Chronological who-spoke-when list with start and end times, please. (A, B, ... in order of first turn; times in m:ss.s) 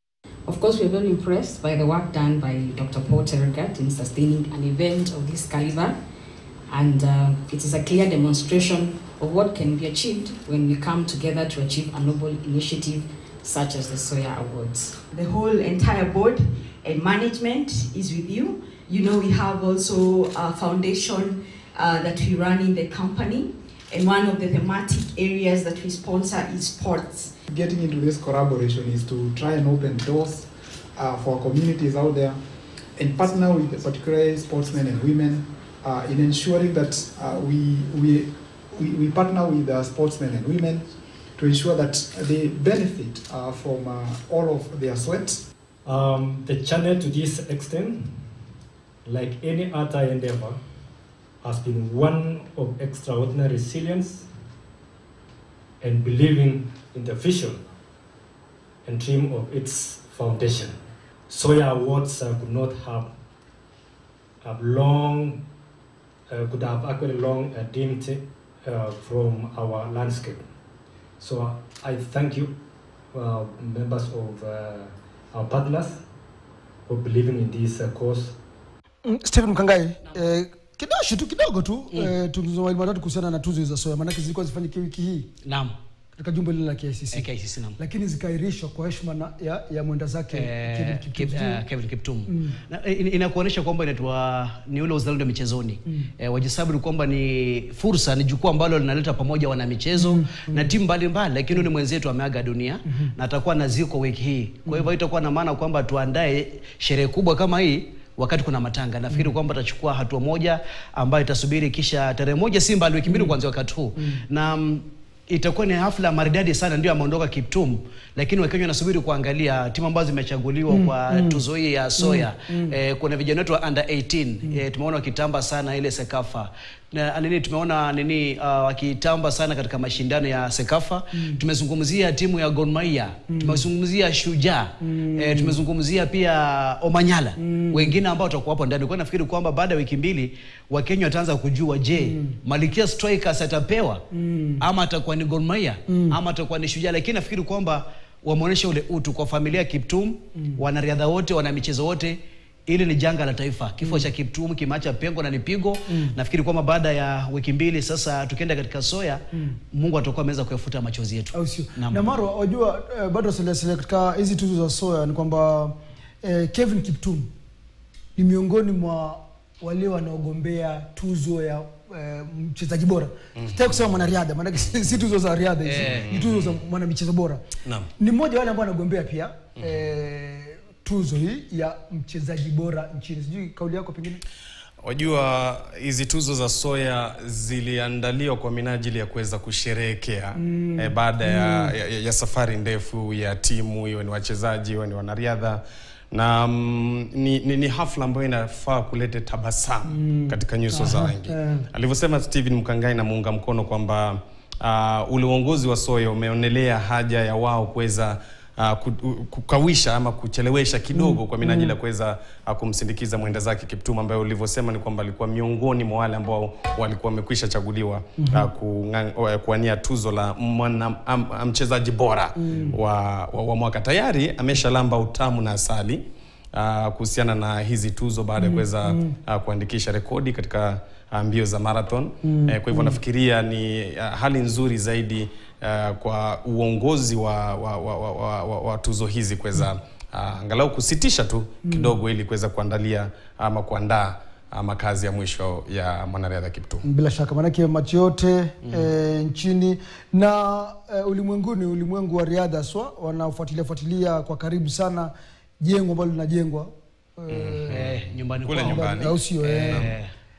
0:00.5-0:06.0 A
0:06.7-0:15.0 A
0:15.1-0:27.3 B
0:27.5-0:32.4 C
0:33.0-0:45.4 C
0:45.8-0:48.2 D
0:49.0-0:50.6 D
0:51.4-0:54.3 D
0:55.8-0:57.6 D
0:58.8-1:00.8 D
1:01.3-1:03.1 D
1:04.4-1:05.4 D
1:06.3-1:10.4 D
1:11.2-1:12.5 D
1:13.1-1:16.0 D
1:16.9-1:18.3 D
1:19.0-1:25.3 E
1:25.4-1:25.7 F
1:26.2-1:27.3 E
1:27.1-1:27.8 F
1:27.8-1:31.6 E
1:30.3-2:24.0 F
1:32.3-1:32.6 E
1:40.0-1:40.7 E
1:53.0-1:53.4 E
2:00.7-2:01.4 E
2:02.0-2:02.7 E
2:11.1-2:11.4 E
2:13.3-2:13.6 E
2:14.8-2:15.6 E
2:17.4-2:18.0 E
2:22.0-2:22.4 E
2:24.1-2:24.6 E
2:24.6-2:39.2 F
2:25.9-2:26.2 E
2:35.9-2:36.1 E
2:39.7-2:42.1 F
2:41.3-2:47.3 E
2:48.2-2:57.4 E
2:55.6-2:56.0 F
2:55.8-2:56.6 G
2:58.0-3:04.2 E
3:04.8-3:46.0 G
3:10.4-3:11.7 E
3:19.9-3:21.6 E
3:30.9-3:31.7 E
3:38.2-3:38.5 E
3:42.4-3:42.8 E
3:46.5-4:06.8 G
3:48.4-3:49.1 E
3:52.2-3:53.0 E
4:01.6-4:01.9 E
4:06.8-4:17.8 E
4:17.3-4:19.9 G
4:17.7-4:20.1 F
4:18.6-4:19.8 E